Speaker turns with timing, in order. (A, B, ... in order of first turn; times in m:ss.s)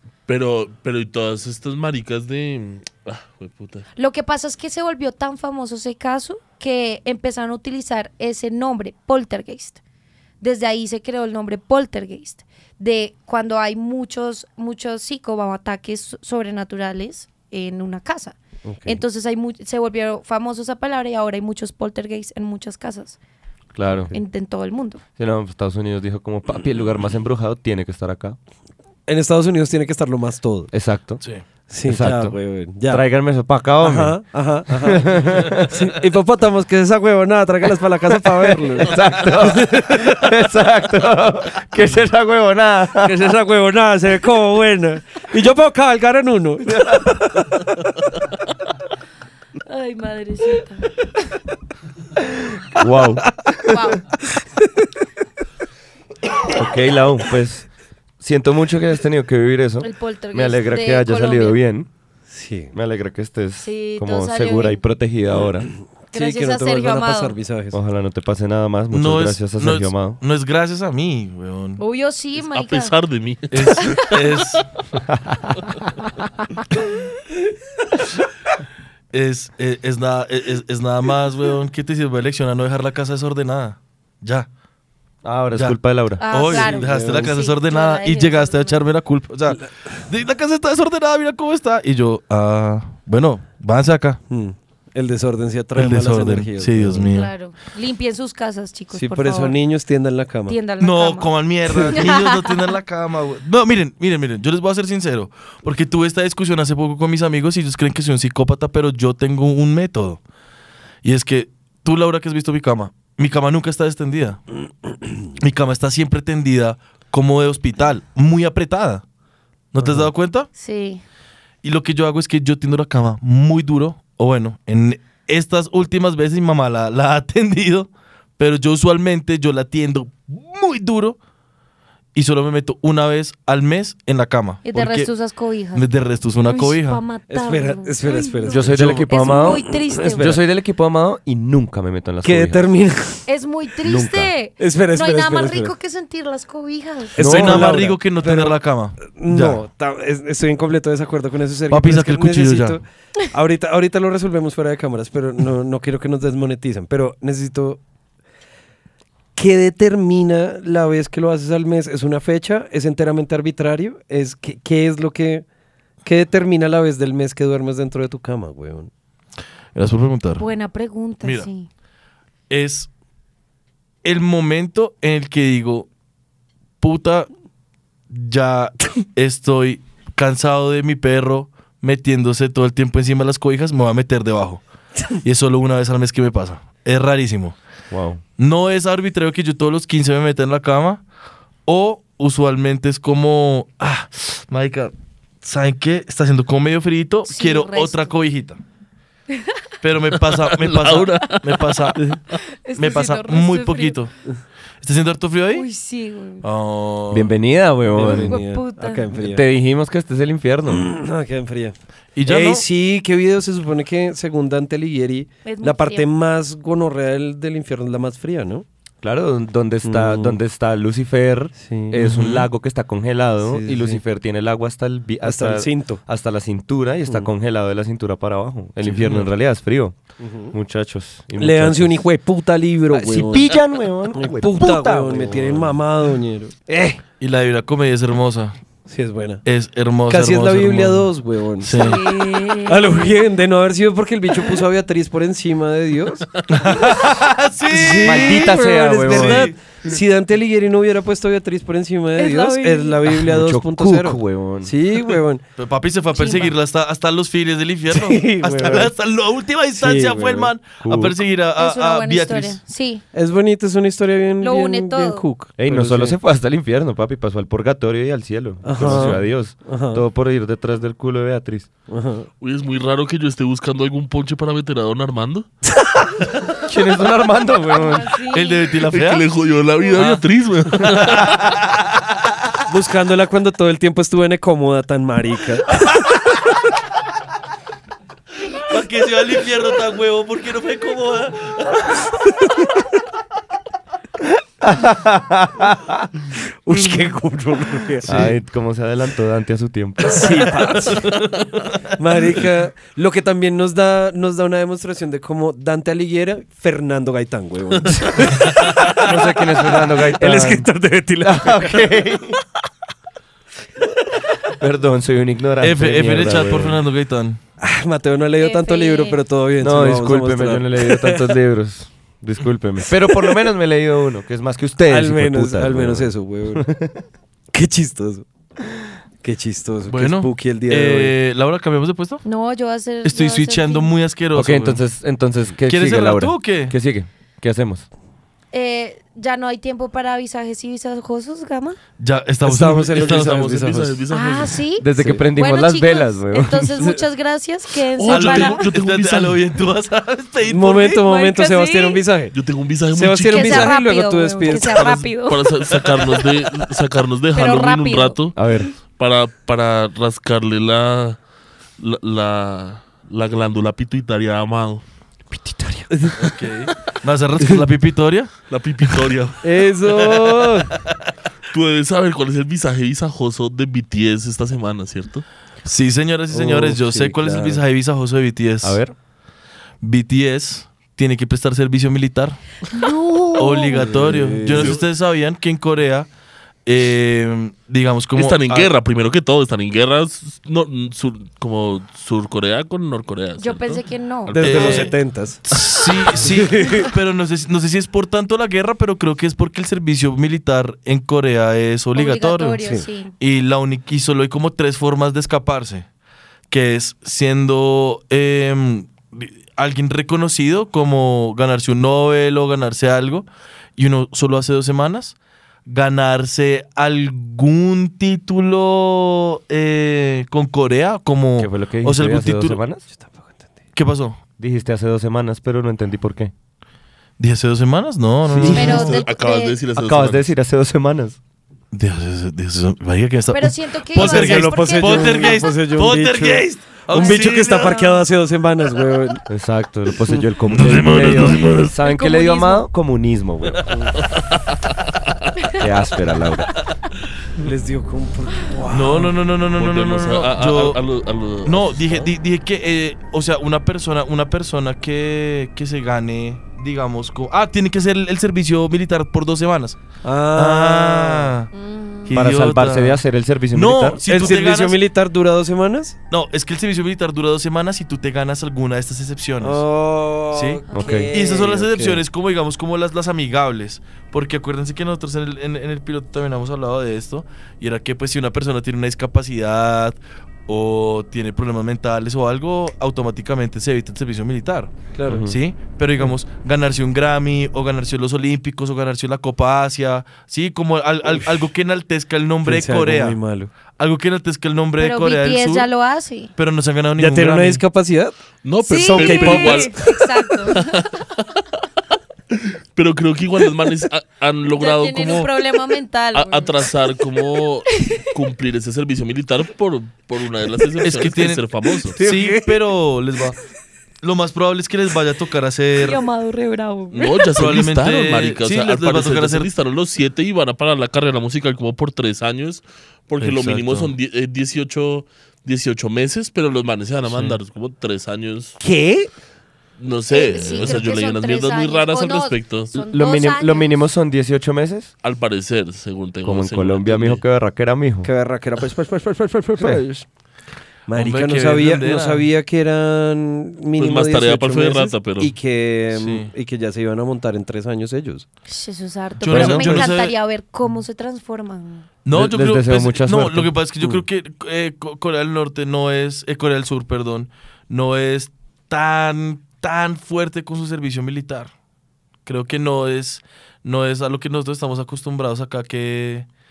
0:00.3-0:03.8 A
0:04.0-0:09.8 B
0:10.4-0:23.2 B
0:18.6-0:19.0 C
0:23.7-0:24.1 D
0:24.1-0:25.0 B
0:25.2-0:28.4 D
0:29.1-0:30.7 C
0:30.7-0:31.2 D
0:31.7-0:33.0 C
0:31.8-0:35.8 D
0:33.8-0:40.3 C
0:38.3-0:43.3 D
0:43.0-0:47.6 C
0:46.7-0:47.0 D
0:49.6-0:51.1 B
0:52.6-0:53.4 D
0:53.6-0:54.1 B
0:56.5-0:57.7 D
0:58.2-1:01.9 D
0:59.8-1:01.6 B
1:02.3-1:02.7 C
1:02.7-1:05.7 D
1:03.6-1:04.8 B
1:06.1-1:07.4 B
1:06.1-1:07.8 C
1:07.7-1:10.2 D
1:08.9-1:11.8 E
1:11.8-1:12.9 B
1:12.4-1:14.2 A
1:13.5-1:14.6 E
1:13.8-1:14.2 B
1:15.1-1:15.6 D
1:19.1-1:24.5 E
1:25.2-1:26.2 D
1:25.5-1:34.2 E
1:26.2-1:28.8 B
1:26.5-1:27.3 C
1:34.3-1:37.1 C
1:35.7-1:37.3 E
1:37.1-1:39.6 B
1:38.9-1:40.6 C
1:40.5-1:42.6 B
1:40.8-1:50.2 E
1:51.0-1:54.4 E
1:55.4-1:59.0 E
1:59.7-2:00.5 E
1:59.8-2:00.1 C
2:00.6-2:01.0 B
2:01.6-2:11.2 E
2:12.1-2:15.1 E
2:14.6-2:15.9 B
2:15.7-2:17.0 E
2:16.4-2:20.4 B
2:17.3-2:20.4 C
2:18.5-2:22.7 D
2:22.2-2:23.2 C
2:23.2-2:27.2 B
2:23.8-2:24.3 D
2:24.6-2:25.7 C
2:27.2-2:37.8 C
2:27.2-2:27.9 D
2:27.2-2:29.6 E
2:31.7-2:32.8 E
2:39.4-2:45.4 C
2:46.0-2:48.9 C
2:49.7-2:50.4 E
2:50.4-2:51.7 B
2:51.2-2:51.5 E
2:52.5-2:52.9 E
2:54.0-2:55.9 E
2:56.8-2:57.3 E
2:58.1-3:04.6 E
3:05.1-3:07.6 E
3:07.9-3:08.2 D
3:08.4-3:11.0 E
3:11.7-3:18.6 E
3:17.3-3:18.1 B
3:19.3-3:19.6 B
3:19.8-3:22.0 E
3:20.2-3:21.6 A
3:22.5-3:24.0 B
3:22.8-3:24.1 E
3:24.8-3:25.6 E
3:25.5-3:26.4 B
3:26.4-3:27.4 E
3:27.1-3:28.4 D
3:27.9-3:29.4 C
3:28.0-3:29.0 B
3:29.2-3:30.9 D
3:30.7-3:38.6 C
3:32.2-3:32.6 E
3:35.4-3:36.1 B
3:39.0-3:50.0 D
3:39.8-3:40.4 C
3:41.6-3:42.4 C
3:43.4-3:44.0 C
3:45.2-3:46.0 C
3:48.8-3:49.3 C
3:50.2-3:50.5 C
3:50.5-3:52.0 D
3:51.4-3:53.6 C
3:52.9-3:55.8 D
3:54.1-3:57.0 C
3:57.2-3:58.6 E
3:58.9-3:59.4 C
3:59.4-4:02.0 E
4:00.1-4:06.9 C
4:01.7-4:03.2 B
4:06.5-4:09.5 E
4:07.7-4:15.4 C
4:08.0-4:09.5 D
4:12.2-4:13.0 B
4:13.0-4:14.7 D
4:15.6-4:22.6 E
4:16.1-4:16.5 B
4:17.9-4:18.9 C
4:19.8-4:20.5 C
4:20.8-4:21.2 D
4:21.6-4:23.0 B
4:23.1-4:26.2 C
4:24.4-4:25.2 B
4:25.6-4:31.7 D
4:28.6-4:30.0 C
4:28.8-4:29.1 E
4:31.9-4:32.3 C
4:32.4-4:35.5 A
4:36.6-4:38.1 D
4:37.7-4:38.8 B
4:38.3-4:39.2 E
4:38.9-4:41.4 A
4:40.0-4:40.2 E
4:40.9-4:42.0 E
4:42.7-4:46.3 C
4:48.5-4:52.0 E
4:52.4-4:52.7 C
4:54.7-4:55.8 C
4:56.3-4:58.4 C
4:58.0-5:00.5 D
5:00.0-5:01.1 C
5:02.0-5:12.0 C
5:08.9-5:10.7 D
5:11.2-5:12.4 D
5:14.6-5:16.8 D
5:15.6-5:17.4 E
5:17.6-5:21.3 C
5:18.4-5:19.2 B
5:19.6-5:26.9 D
5:23.1-5:23.4 C
5:24.9-5:26.6 C
5:27.5-5:31.2 C
5:29.9-5:32.2 E
5:32.2-5:33.9 B
5:33.0-5:34.8 E
5:34.3-5:37.9 D
5:35.6-5:36.7 E
5:38.5-5:41.8 B
5:42.0-5:43.4 E
5:42.4-5:44.0 C
5:43.0-5:44.6 A
5:44.1-5:48.6 B
5:44.8-5:46.9 D
5:45.0-5:45.2 C
5:48.0-5:49.4 A
5:48.0-5:51.0 E
5:50.4-5:52.3 C
5:51.0-5:52.0 B
5:52.3-5:53.8 A
5:52.9-5:54.9 C
5:53.3-5:55.5 B
5:54.4-6:01.2 A
5:57.3-5:58.2 B
5:58.4-5:58.7 D
6:01.8-6:04.8 A
6:05.3-6:06.1 D
6:05.9-6:06.2 C
6:06.2-6:08.3 E
6:08.5-6:10.3 A
6:09.4-6:10.7 C
6:11.5-6:15.2 A
6:15.6-6:18.8 E
6:16.3-6:17.6 C
6:18.6-6:18.9 D
6:19.8-6:22.4 E
6:22.8-6:23.7 B
6:23.4-6:26.1 E
6:23.8-6:24.8 C
6:24.5-6:24.8 A
6:26.6-6:28.7 E
6:28.1-6:34.9 A
6:33.4-6:34.9 B
6:34.3-6:36.9 C
6:34.4-6:34.9 E
6:35.5-6:42.6 E
6:41.9-6:43.1 B
6:42.6-6:42.8 C
6:43.2-6:45.8 E
6:46.5-6:53.2 E
6:53.8-6:55.2 E
6:55.7-7:02.6 E
7:01.4-7:02.8 D
7:02.9-7:03.5 C
7:03.7-7:04.2 E
7:04.4-7:06.3 D
7:07.2-7:08.8 E
7:08.3-7:08.8 D
7:08.3-7:09.0 C
7:08.5-7:09.6 B
7:08.6-7:10.3 A
7:09.8-7:11.2 D
7:11.7-7:17.8 E
7:13.3-7:15.5 B
7:13.9-7:19.2 C
7:16.9-7:18.0 B
7:19.3-7:23.8 D
7:20.5-7:21.8 E
7:21.8-7:22.7 B
7:24.0-7:25.1 A
7:25.6-7:26.5 D
7:27.4-7:29.1 C
7:28.7-7:30.8 E
7:29.6-7:31.9 A
7:31.4-7:39.8 E
7:40.0-7:41.3 C
7:40.3-7:41.5 E
7:41.5-7:42.1 B
7:42.0-7:43.0 E
7:42.1-7:44.0 D
7:43.5-7:44.8 E
7:44.1-7:46.0 C
7:46.1-7:49.6 E
7:49.4-7:52.0 C
7:50.3-8:13.2 E
7:50.7-7:51.1 B
7:50.7-7:51.1 D
8:04.9-8:05.3 C
8:05.1-8:05.4 D
8:11.0-8:11.4 C
8:12.4-8:13.5 C
8:13.8-8:15.7 E
8:14.8-8:16.3 B
8:16.4-8:17.6 E
8:17.0-8:18.1 C
8:18.4-8:21.3 A
8:18.6-8:20.8 B
8:18.8-8:19.9 C
8:19.0-8:19.5 D
8:22.3-8:25.3 A
8:24.6-8:26.7 B
8:26.1-8:32.0 A
8:27.7-8:28.1 B
8:30.8-8:33.4 E
8:32.0-8:32.7 C
8:34.0-8:36.0 E
8:35.8-8:37.3 B
8:36.9-8:48.6 A
8:37.3-8:39.5 E
8:43.2-8:43.9 E
8:47.0-8:47.4 E
8:48.6-8:49.1 C
8:49.8-8:52.7 A
8:50.1-8:53.7 B
8:52.7-8:54.9 D
8:55.0-8:57.2 A
8:56.2-8:58.1 D
8:58.0-9:00.0 C
8:59.6-8:59.8 D
9:00.9-9:08.2 C
9:00.9-9:02.2 E
9:03.8-9:05.3 A
9:05.9-9:06.3 E
9:08.5-9:11.9 B
9:09.2-9:10.1 E
9:09.3-9:09.9 C
9:12.0-9:21.5 E
9:12.1-9:13.5 D
9:22.2-9:26.3 E